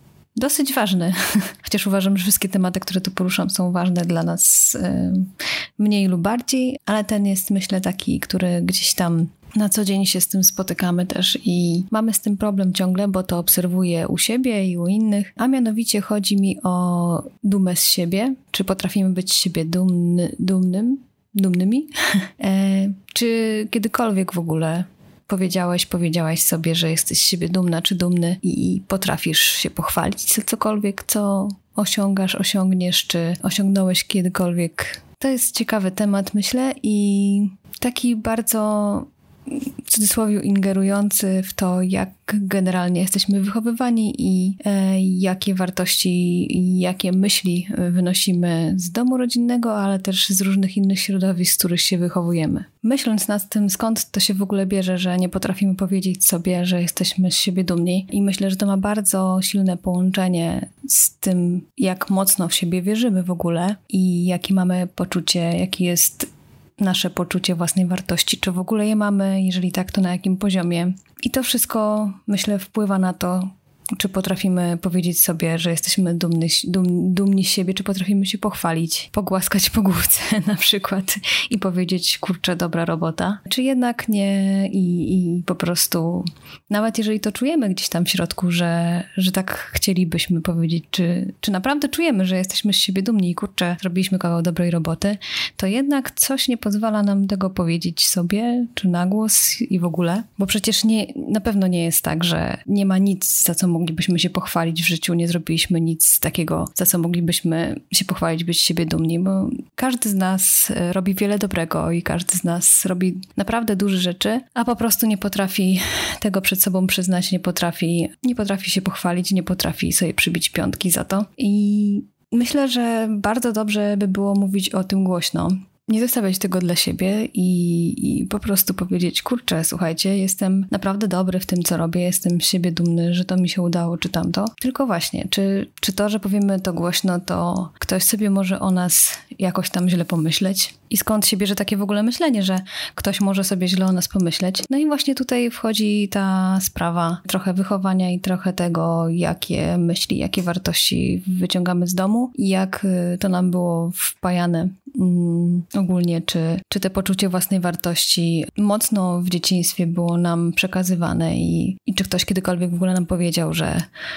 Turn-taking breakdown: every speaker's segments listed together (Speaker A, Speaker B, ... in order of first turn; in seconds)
Speaker A: 0.3-39.1, 39.8-163.9